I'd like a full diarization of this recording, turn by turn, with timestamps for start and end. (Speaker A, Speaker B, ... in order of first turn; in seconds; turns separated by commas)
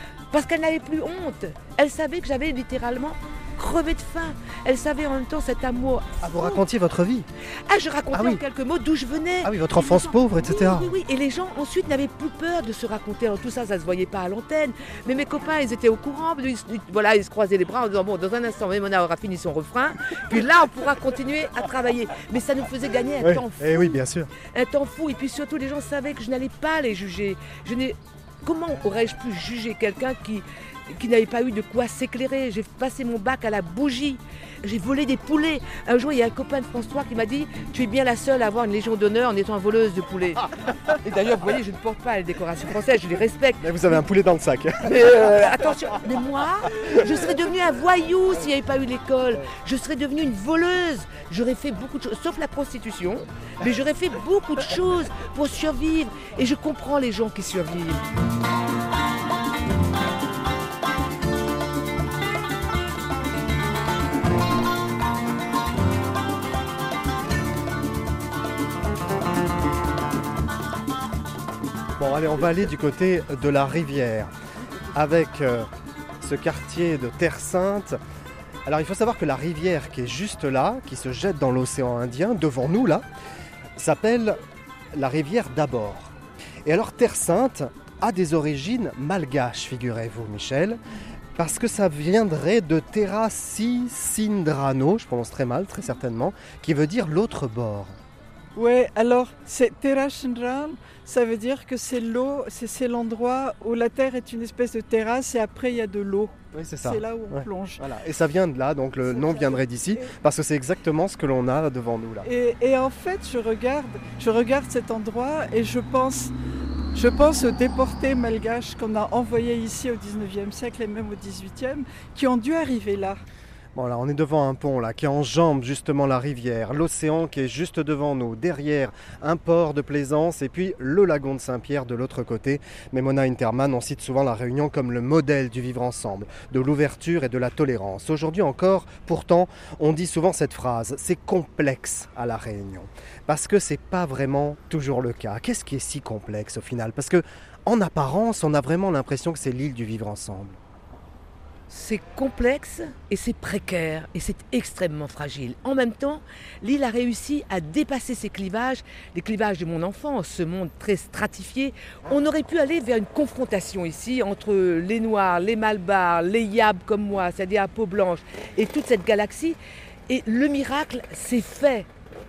Speaker A: 0.3-6.6, Speaker B: 6.2-7.3, Speaker A: 7.7-24.0, Speaker B: 8.1-8.4, Speaker B: 9.4-10.9, Speaker B: 23.2-24.3, Speaker A: 24.5-44.0, Speaker B: 43.6-45.5, Speaker A: 44.8-58.0, Speaker B: 72.0-74.3, Speaker B: 74.9-75.7, Speaker B: 76.2-78.0, Speaker B: 78.7-83.0, Speaker B: 83.8-84.4, Speaker B: 84.9-86.1, Speaker B: 86.7-90.8, Speaker B: 91.4-98.0, Speaker C: 98.6-107.8, Speaker B: 106.5-112.3, Speaker C: 109.0-110.1, Speaker C: 112.2-116.3, Speaker C: 116.9-123.2, Speaker B: 123.8-150.6, Speaker A: 151.7-169.6, Speaker A: 170.1-171.9